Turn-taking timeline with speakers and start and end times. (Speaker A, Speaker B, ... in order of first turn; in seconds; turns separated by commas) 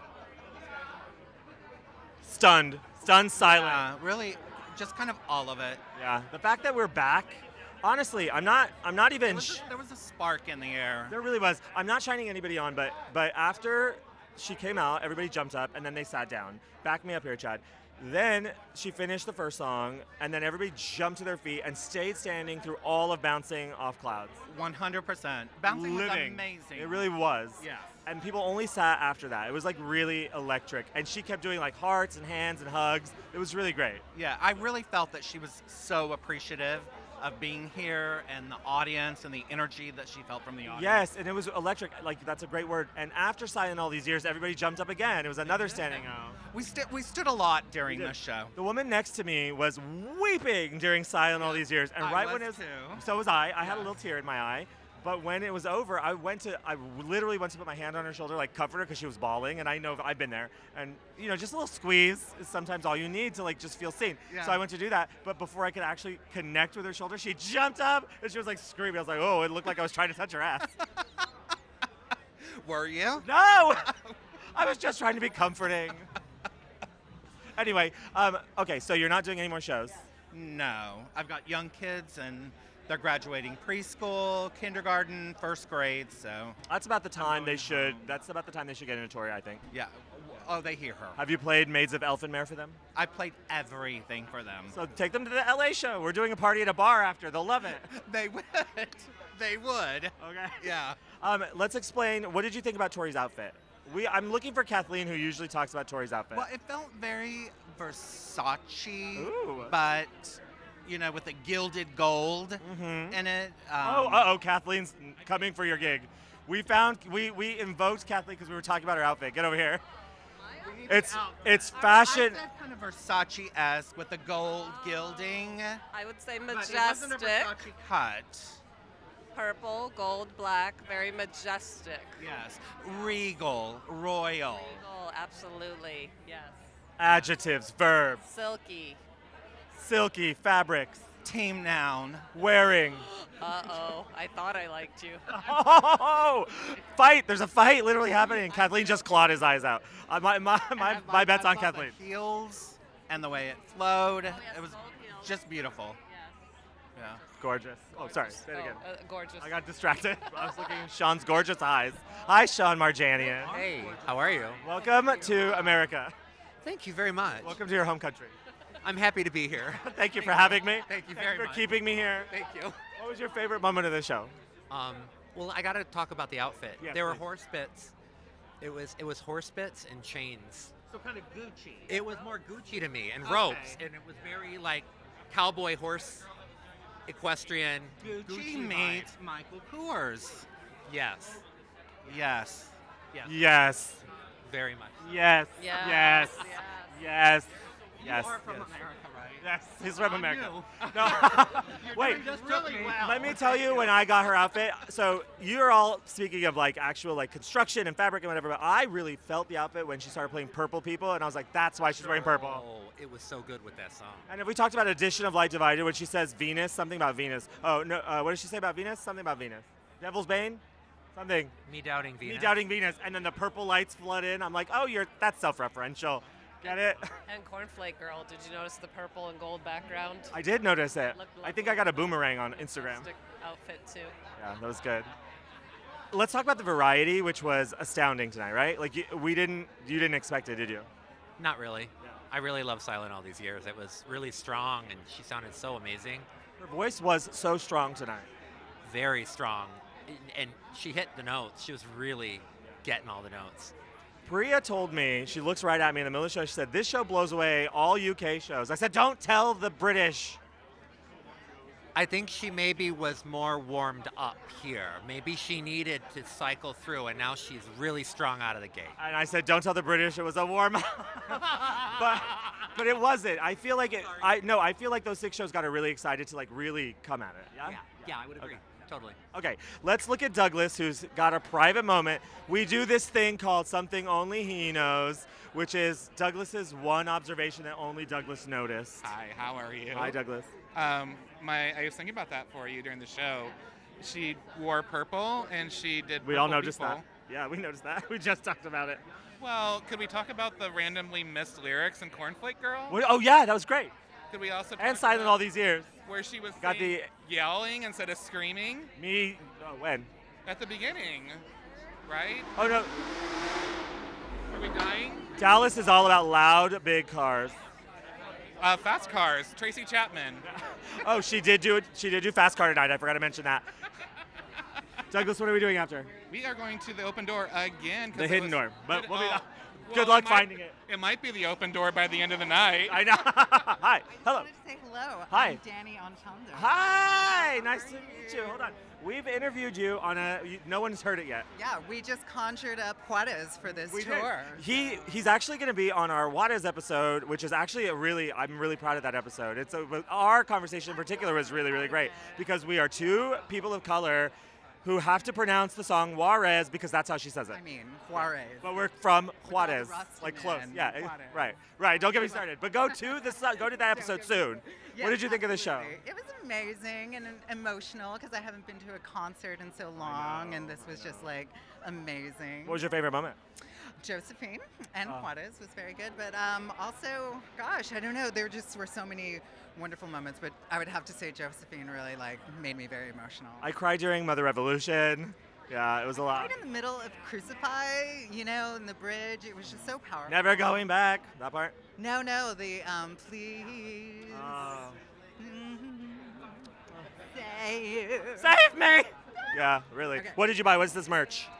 Speaker A: 2.2-3.9, Speaker B: 3.3-5.8, Speaker A: 6.0-9.6, Speaker B: 9.2-11.2, Speaker A: 11.1-24.4, Speaker B: 24.5-27.9, Speaker A: 25.6-34.0, Speaker B: 34.1-41.0, Speaker A: 40.7-46.4, Speaker B: 45.4-48.5, Speaker A: 47.9-70.8, Speaker B: 51.4-53.0, Speaker B: 53.6-53.9, Speaker B: 64.3-64.6, Speaker B: 72.4-73.3, Speaker A: 73.2-73.9, Speaker A: 74.5-76.1, Speaker A: 77.5-80.0, Speaker B: 80.3-86.6, Speaker A: 86.7-89.6, Speaker B: 87.2-88.1, Speaker B: 89.7-91.2, Speaker A: 91.2-92.8, Speaker B: 92.9-94.8, Speaker A: 94.7-97.9, Speaker B: 97.8-101.0, Speaker A: 100.2-106.5, Speaker B: 106.3-114.3, Speaker A: 109.1-109.8, Speaker A: 112.6-113.2, Speaker A: 113.8-119.8, Speaker B: 120.6-125.8, Speaker A: 120.9-122.4, Speaker C: 125.9-127.6, Speaker B: 126.4-128.6, Speaker C: 129.3-132.2, Speaker B: 132.2-134.8, Speaker C: 134.5-136.6, Speaker A: 137.0-138.2, Speaker C: 138.2-139.0, Speaker A: 139.7-141.0, Speaker B: 141.2-142.3, Speaker A: 142.3-143.1, Speaker C: 143.1-145.5, Speaker A: 145.3-151.9, Speaker C: 148.3-149.2, Speaker B: 150.8-156.0, Speaker C: 154.3-155.3, Speaker B: 156.9-157.2, Speaker A: 157.4-158.8, Speaker C: 157.9-159.6, Speaker A: 159.4-163.6, Speaker D: 163.3-164.7, Speaker A: 164.6-166.1, Speaker C: 164.7-165.3, Speaker D: 166.6-167.6, Speaker A: 167.4-168.3, Speaker D: 168.8-171.7, Speaker A: 169.8-172.3, Speaker D: 172.3-172.6, Speaker A: 173.0-174.3, Speaker D: 174.7-177.9, Speaker A: 176.8-177.2, Speaker D: 178.6-180.7, Speaker B: 180.9-181.9, Speaker D: 181.9-186.3, Speaker B: 183.3-183.8, Speaker D: 187.1-189.1, Speaker B: 188.0-190.5, Speaker D: 190.8-191.4, Speaker B: 192.0-193.3, Speaker A: 193.2-194.0, Speaker D: 194.4-195.1, Speaker A: 195.0-198.8, Speaker C: 195.6-196.9, Speaker B: 198.0-199.4, Speaker A: 199.4-212.6, Speaker B: 200.8-201.2, Speaker B: 201.8-203.3, Speaker D: 202.3-202.9, Speaker D: 211.8-214.3, Speaker A: 214.3-220.6, Speaker A: 221.1-221.5, Speaker D: 221.7-222.6, Speaker A: 222.2-227.1, Speaker C: 226.6-230.3, Speaker A: 230.3-233.1, Speaker C: 231.1-234.1, Speaker A: 234.4-235.1, Speaker A: 236.1-240.9, Speaker D: 241.4-246.3, Speaker A: 246.6-248.3, Speaker D: 248.8-253.7, Speaker A: 254.2-260.4, Speaker D: 261.9-269.0, Speaker A: 269.0-278.6, Speaker D: 277.6-279.2, Speaker A: 279.3-289.1, Speaker E: 289.0-290.2, Speaker A: 289.9-290.5, Speaker E: 290.7-297.0, Speaker A: 296.2-299.0, Speaker E: 299.4-303.0, Speaker A: 302.9-303.9, Speaker E: 304.3-305.4, Speaker A: 304.8-305.9, Speaker E: 306.0-308.9, Speaker A: 306.6-307.1, Speaker A: 308.9-310.1, Speaker E: 310.4-311.4, Speaker E: 312.0-312.5, Speaker A: 312.6-312.9, Speaker E: 314.5-315.3, Speaker A: 315.4-317.6, Speaker E: 318.6-320.4, Speaker A: 320.4-323.6, Speaker A: 325.1-326.1, Speaker E: 326.3-333.0, Speaker A: 328.1-330.7, Speaker A: 332.9-334.5, Speaker F: 334.1-338.8, Speaker A: 335.3-335.6, Speaker A: 336.5-341.5, Speaker F: 341.5-345.1, Speaker A: 343.8-357.6, Speaker F: 351.9-352.4, Speaker F: 357.5-358.8, Speaker A: 358.1-366.0, Speaker F: 359.4-361.5, Speaker F: 362.0-372.8, Speaker A: 370.0-371.3, Speaker A: 372.6-373.4, Speaker F: 374.0-383.7, Speaker A: 383.6-386.5, Speaker F: 386.2-390.8, Speaker A: 390.3-391.8, Speaker F: 392.0-396.6, Speaker A: 394.3-395.0, Speaker F: 397.3-398.5, Speaker A: 398.4-401.5, Speaker F: 400.1-400.4